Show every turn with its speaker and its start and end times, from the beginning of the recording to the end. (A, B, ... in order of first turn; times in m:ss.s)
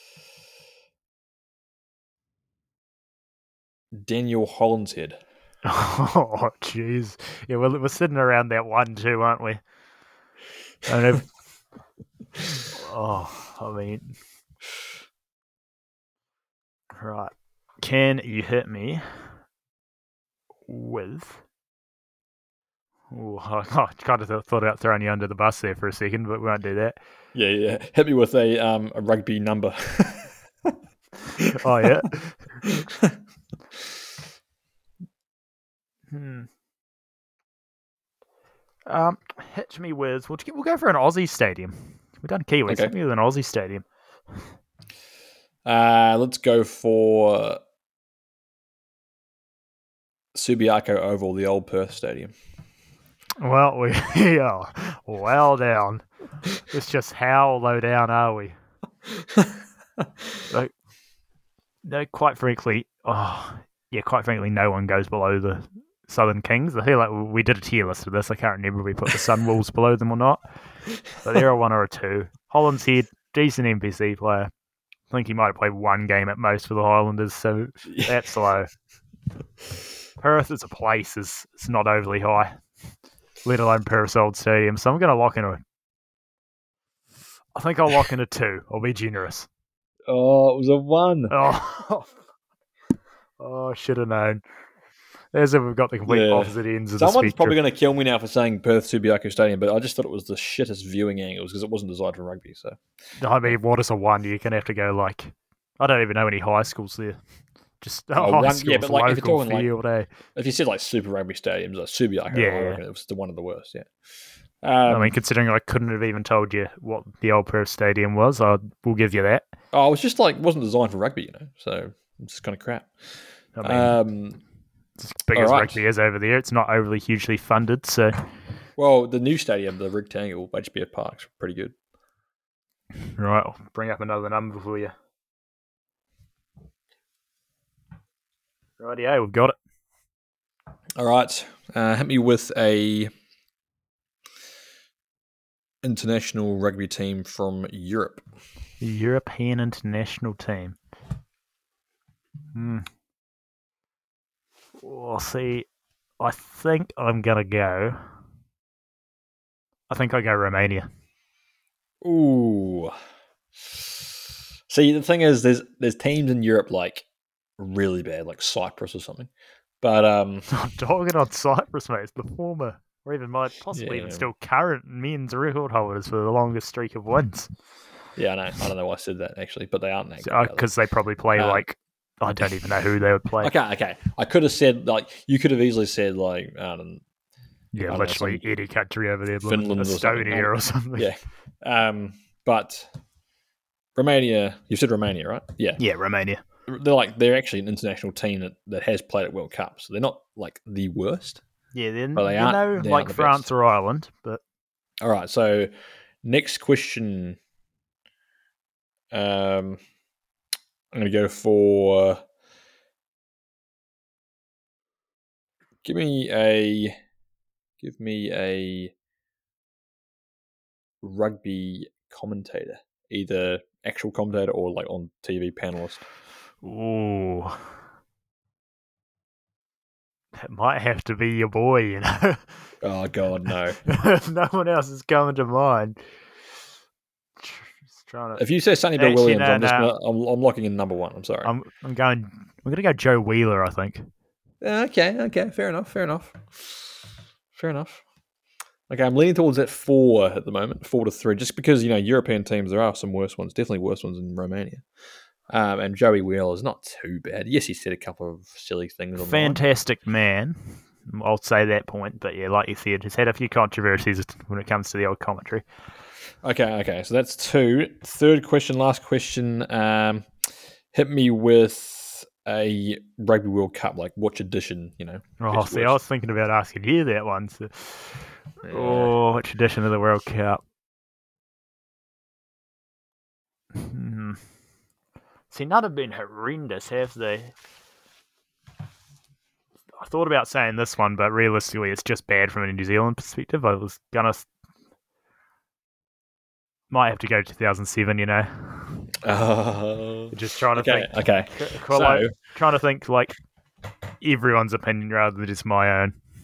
0:03.9-0:05.2 A
0:05.6-0:09.6 B
0:10.8-0:11.3 B
0:12.7-0:14.1 B
0:16.9-0:19.3 B
0:20.7-0:21.4 B
0:23.1-0:27.0 B
0:27.3-0:30.7 A
0:31.4-0:31.8 A
0:31.5-0:32.5 B
0:32.6-0:33.2 A
0:36.1-0:36.5 B
0:38.8-0:43.8 B
0:42.7-0:42.9 A
0:45.6-0:47.6 A
0:50.3-0:52.3 A
0:53.4-0:58.5 B
0:59.1-0:59.5 A
1:01.8-1:10.4 B
1:11.2-1:14.5 B
1:15.1-1:18.7 B
1:20.2-1:22.6 B
1:23.4-1:25.6 B
1:27.5-1:29.5 B
1:30.1-1:31.4 A
1:31.3-1:32.1 B
1:33.4-1:34.4 B
1:35.3-1:37.6 B
1:36.1-1:42.8 A
1:43.2-1:47.2 B
1:47.8-1:50.1 B
1:48.2-1:49.7 A
1:50.3-1:53.9 A
1:52.3-1:52.8 B
1:54.6-1:55.1 A
1:54.9-1:59.5 B
1:59.7-2:04.4 A
2:03.6-2:04.0 B
2:05.0-2:08.2 B
2:05.3-2:05.8 A
2:08.8-2:11.7 A
2:13.0-2:14.9 B
2:18.8-2:19.6 B
2:21.0-2:23.1 A
2:25.8-2:28.2 A
2:28.8-2:30.8 B
2:32.5-2:32.9 B
2:34.8-2:35.7 B
2:36.2-2:38.1 B
2:39.9-2:40.9 B
2:42.0-2:43.0 A
2:44.7-2:47.0 A
2:47.6-2:49.3 A
2:49.8-2:50.5 A
2:50.5-2:57.5 B
2:53.7-2:54.2 A
2:58.2-3:00.7 A
3:00.2-3:03.5 B
3:01.4-3:01.6 A
3:03.4-3:07.0 A
3:07.7-3:11.1 B
3:07.9-3:08.5 A
3:09.4-3:12.9 A
3:13.9-3:15.8 A
3:15.8-3:16.4 B
3:16.7-3:21.4 A
3:21.7-3:24.4 B
3:22.1-3:23.5 A
3:25.0-3:25.7 A
3:26.2-3:27.4 A
3:29.1-3:29.8 A
3:30.9-3:32.2 A
3:35.8-3:37.0 A
3:37.8-3:38.9 A
3:41.0-3:46.0 A
3:46.6-3:47.6 B
3:50.3-3:52.7 B
3:52.8-3:53.8 A
3:53.8-3:56.0 B
3:57.4-3:58.4 B
3:58.4-4:01.5 A
3:59.0-3:59.9 B
4:01.4-4:04.0 B
4:04.6-4:07.0 A
4:07.5-4:08.0 A
4:08.9-4:14.8 A
4:15.5-4:19.6 A
4:19.2-4:25.6 B
4:26.4-4:36.0 A
4:35.4-4:40.6 B
4:38.6-4:39.2 A
4:43.7-4:44.4 B
4:45.5-4:47.5 B
4:49.9-4:54.5 B
4:56.9-4:59.0 B
4:59.2-5:02.3 A
5:00.3-5:03.3 B
5:04.2-5:06.2 B